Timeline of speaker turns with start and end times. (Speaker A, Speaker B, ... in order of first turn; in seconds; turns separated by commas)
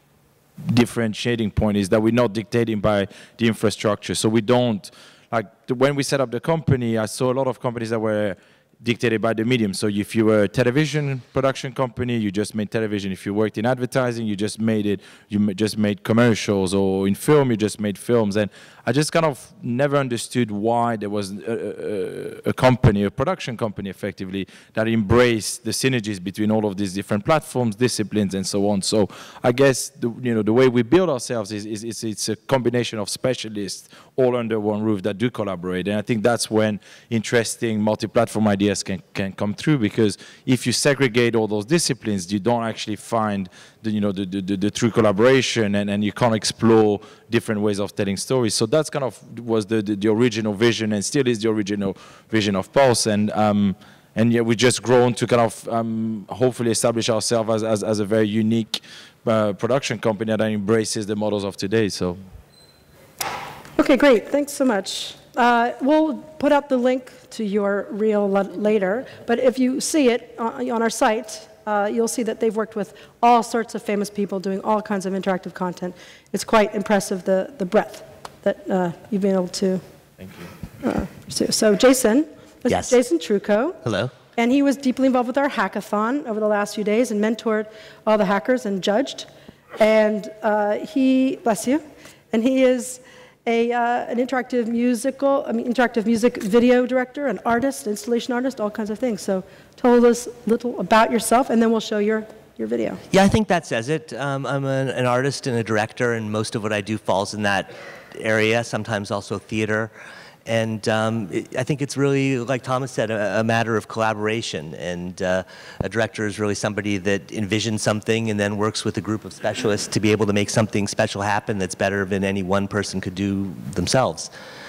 Speaker A: 0.6-62.2, Speaker B: 63.8-79.8, Speaker A: 80.2-80.5, Speaker B: 80.8-83.8, Speaker C: 82.7-83.0, Speaker C: 83.8-84.1, Speaker B: 84.4-89.3, Speaker B: 89.8-103.0, Speaker C: 103.1-109.9, Speaker C: 110.5-124.3